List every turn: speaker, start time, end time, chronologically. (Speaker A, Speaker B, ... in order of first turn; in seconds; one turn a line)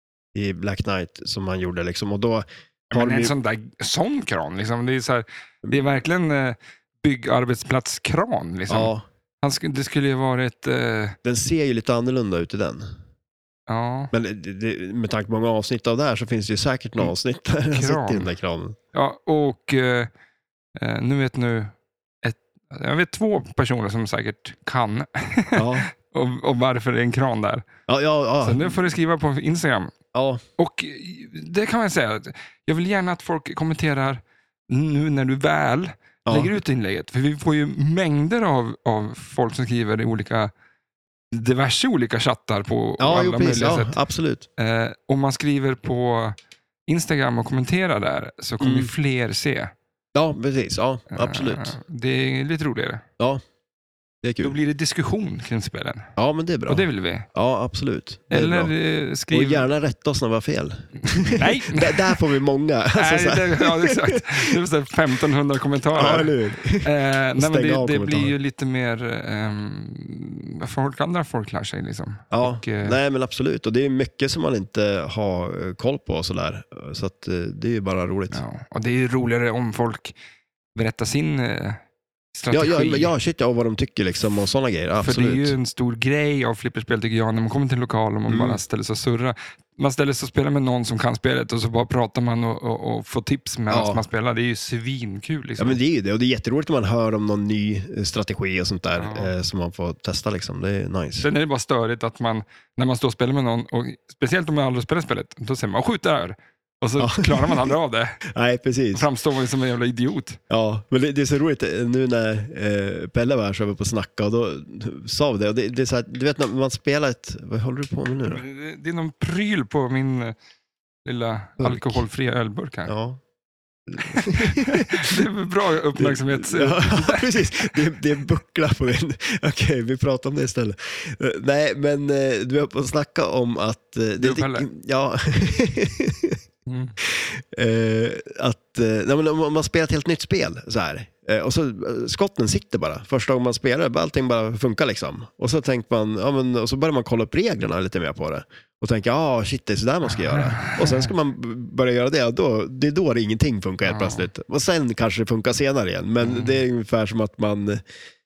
Speaker A: 0.3-3.3
Speaker B: 2.9-11.2
Speaker A: 8.7-9.0
Speaker A: 11.2-12.8
Speaker B: 13.7-14.1
Speaker A: 14.1-18.8
Speaker B: 17.7-18.3
Speaker B: 18.9-20.1
Speaker B: 20.8-27.6
Speaker A: 25.6-25.9
Speaker A: 27.9-28.7
Speaker B: 28.4-29.9
Speaker A: 30.1-30.4
Speaker B: 30.6-40.5
Speaker A: 36.3-36.5
Speaker B: 41.3-44.0
Speaker A: 43.0-44.5
Speaker B: 44.6-46.4
Speaker B: 46.9-49.7
Speaker A: 48.6-48.9
Speaker A: 50.1-51.7
Speaker B: 51.1-53.0
Speaker A: 54.2-54.5
Speaker B: 54.4-56.1
Speaker A: 56.2-58.7
Speaker B: 56.7-57.3
Speaker B: 58.3-59.7
Speaker A: 59.3-64.5
Speaker B: 61.3-62.2
Speaker B: 62.9-73.0
Speaker A: 66.0-68.3
Speaker A: 72.3-78.4
Speaker B: 78.3-80.2
Speaker B: 80.8-81.8
Speaker B: 82.3-83.1
Speaker A: 82.5-85.5
Speaker B: 85.0-95.8
Speaker A: 88.3-88.6
Speaker A: 93.7-94.0
Speaker A: 95.6-101.3
Speaker B: 99.0-99.3
Speaker B: 101.2-108.2
Speaker A: 107.0-107.7
Speaker A: 108.3-109.1
Speaker B: 108.9-110.4
Speaker A: 110.5-118.4
Speaker B: 118.3-120.4
Speaker B: 121.0-122.9
Speaker A: 121.6-122.0
Speaker A: 122.9-123.2
Speaker A: 123.9-125.2
Speaker B: 124.0-127.8
Speaker A: 126.0-136.4
Speaker B: 134.2-134.7
Speaker B: 136.7-137.0
Speaker A: 137.0-157.8
Speaker B: 150.3-151.1
Speaker B: 153.8-154.3
Speaker B: 156.2-156.6